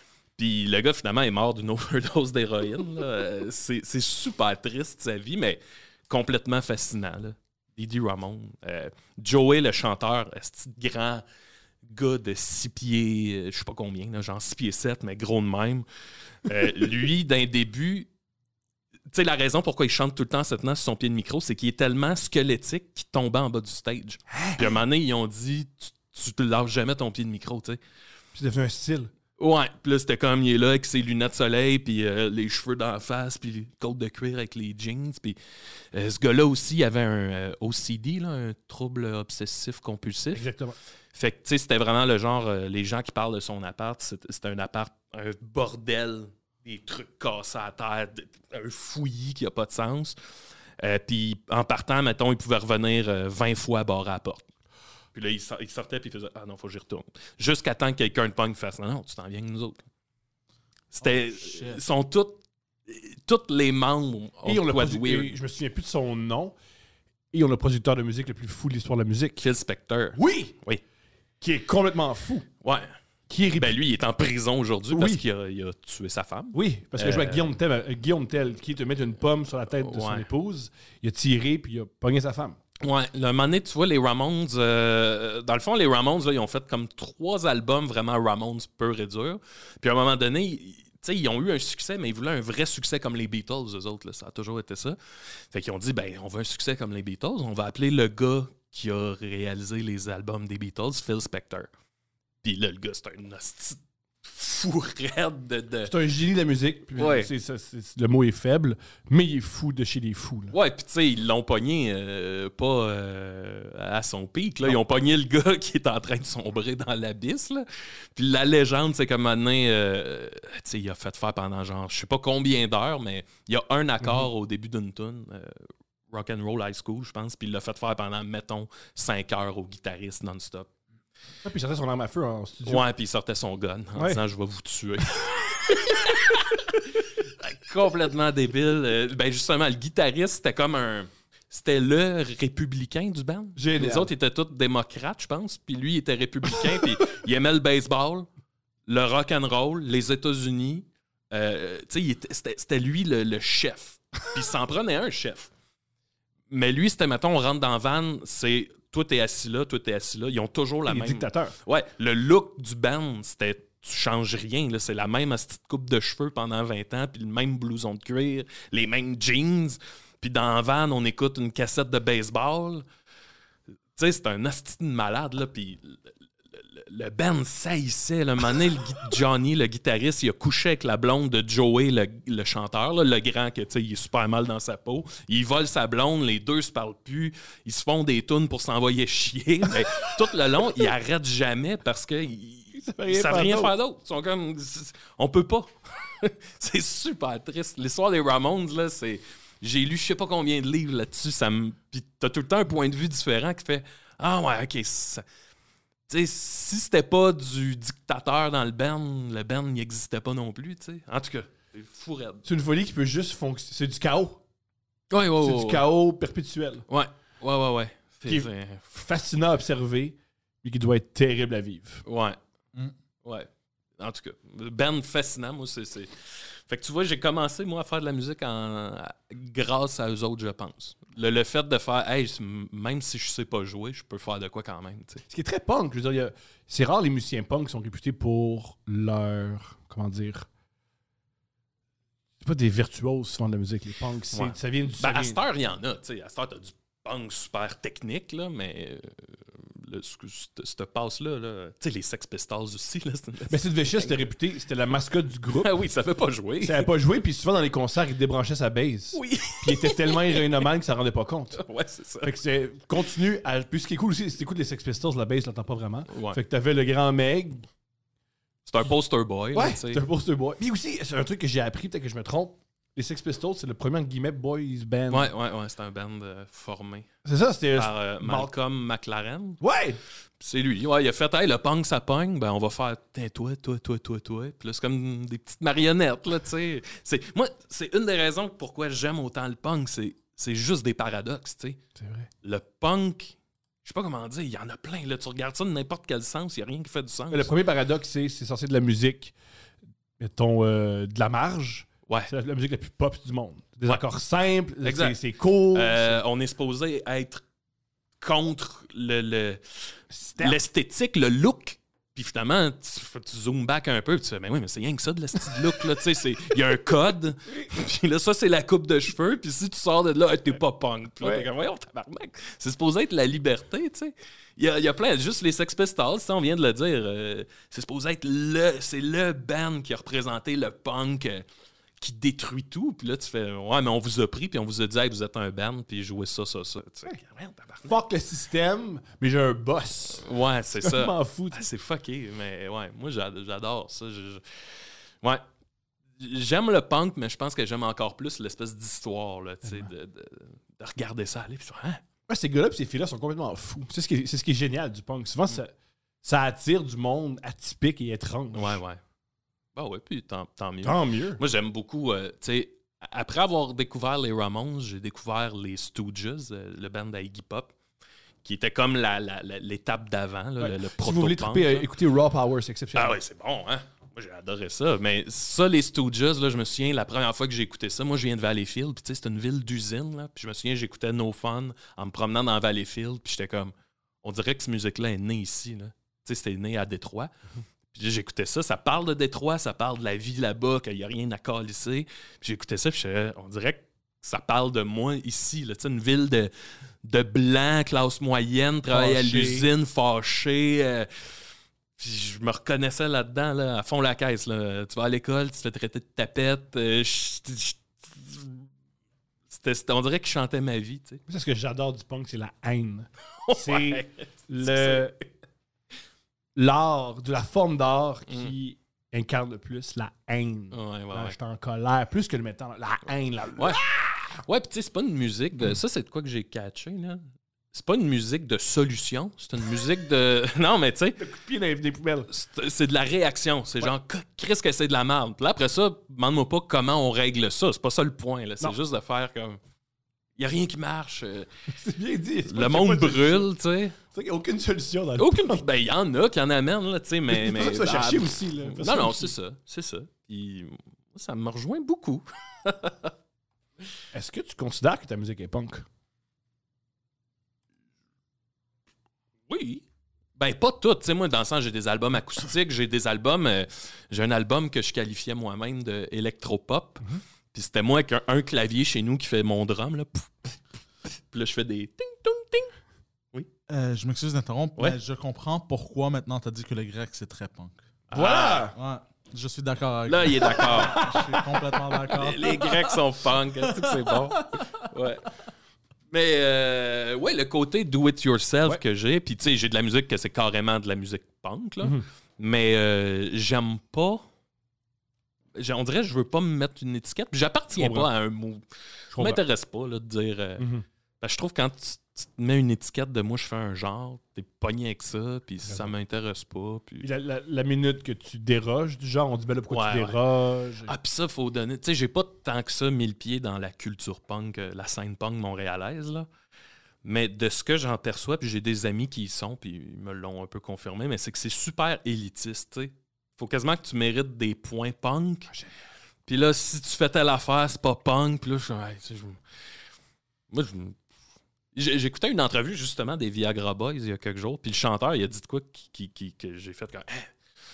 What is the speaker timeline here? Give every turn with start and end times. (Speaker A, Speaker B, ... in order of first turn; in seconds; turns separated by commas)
Speaker A: 0.4-11.2, Speaker A: 11.8-15.8, Speaker A: 16.4-18.1, Speaker A: 19.1-27.8, Speaker B: 24.3-24.8, Speaker B: 28.3-29.1, Speaker A: 29.4-35.4, Speaker A: 35.9-40.5, Speaker B: 40.3-40.8, Speaker A: 41.1-50.1, Speaker A: 50.8-54.5, Speaker A: 55.1-59.8, Speaker A: 60.9-65.3, Speaker C: 61.0-61.8, Speaker B: 64.4-66.5, Speaker B: 67.3-69.4, Speaker A: 69.4-70.8, Speaker B: 70.1-70.5, Speaker B: 71.4-72.5, Speaker A: 72.6-72.9, Speaker B: 73.3-73.8, Speaker A: 73.5-77.5, Speaker B: 74.9-75.2, Speaker B: 76.5-82.6, Speaker A: 79.8-80.2, Speaker A: 82.8-95.0, Speaker A: 95.5-101.7, Speaker A: 102.4-105.9, Speaker B: 105.8-110.5, Speaker A: 107.0-107.3, Speaker A: 110.5-125.6, Speaker B: 124.0-124.3, Speaker A: 126.1-130.7, Speaker B: 131.4-132.8, Speaker A: 132.6-148.3, Speaker B: 133.9-134.2, Speaker B: 143.6-144.1, Speaker A: 148.9-155.5, Speaker A: 156.5-172.8, Speaker B: 160.8-161.5, Speaker A: 173.9-205.2, Speaker B: 192.7-193.7, Speaker A: 206.1-212.4, Speaker B: 212.4-214.4, Speaker A: 215.1-215.8, Speaker B: 215.4-216.8, Speaker A: 216.9-218.9, Speaker B: 218.2-222.0, Speaker A: 222.1-222.4, Speaker A: 223.2-235.2, Speaker B: 235.3-240.5, Speaker B: 242.4-245.4, Speaker A: 244.3-254.3, Speaker B: 253.5-255.7, Speaker A: 255.5-256.9, Speaker B: 256.6-261.6, Speaker A: 259.1-260.6, Speaker A: 261.6-262.4, Speaker B: 262.2-267.7, Speaker A: 266.1-266.4, Speaker A: 268.6-270.0, Speaker B: 269.5-275.3, Speaker A: 275.1-277.1, Speaker B: 277.2-278.5, Speaker A: 277.7-279.6, Speaker B: 279.6-280.0, Speaker A: 280.4-291.8, Speaker B: 292.0-292.3, Speaker A: 292.4-297.5, Speaker B: 297.3-299.3, Speaker B: 300.2-306.2, Speaker A: 304.8-305.2, Speaker A: 305.7-307.4, Speaker A: 308.2-331.4, Speaker B: 310.1-310.6, Speaker B: 321.2-321.5, Speaker A: 332.0-337.9, Speaker B: 337.8-341.6, Speaker A: 340.2-344.4, Speaker A: 346.2-352.0, Speaker B: 352.3-358.8, Speaker A: 358.5-359.0, Speaker A: 359.8-367.7, Speaker B: 360.8-361.4, Speaker A: 368.4-371.9, Speaker B: 370.6-373.2, Speaker A: 372.9-387.3, Speaker A: 387.9-396.5, Speaker A: 397.0-401.3, Speaker B: 398.9-399.7, Speaker A: 402.0-408.6, Speaker A: 409.5-411.2, Speaker B: 411.3-415.1, Speaker A: 413.4-415.1, Speaker B: 416.6-424.1, Speaker A: 418.3-418.5, Speaker A: 420.7-421.4, Speaker A: 423.6-423.8, Speaker A: 424.3-427.2, Speaker A: 427.7-431.2, Speaker B: 431.2-432.3, Speaker A: 432.3-439.6, Speaker A: 440.4-441.5, Speaker B: 441.7-443.5, Speaker A: 442.5-444.0, Speaker B: 444.1-445.6, Speaker A: 445.2-453.1, Speaker B: 447.3-449.3, Speaker B: 454.1-455.8, Speaker A: 459.5-459.8, Speaker A: 460.4-472.7, Speaker C: 473.7-477.8, Speaker A: 478.1-478.7, Speaker B: 478.1-478.7, Speaker C: 478.7-483.0, Speaker A: 480.1-481.2, Speaker B: 480.4-481.6, Speaker A: 482.1-485.3, Speaker A: 486.1-494.2, Speaker A: 495.5-500.7, Speaker B: 497.8-498.1, Speaker B: 499.1-499.4, Speaker B: 500.6-500.8, Speaker A: 501.2-507.1, Speaker B: 505.6-505.9, Speaker B: 507.0-510.9, Speaker A: 509.7-510.2, Speaker A: 510.9-516.3, Speaker A: 517.0-525.5, Speaker A: 526.2-529.4, Speaker A: 530.5-531.0, Speaker A: 531.7-537.3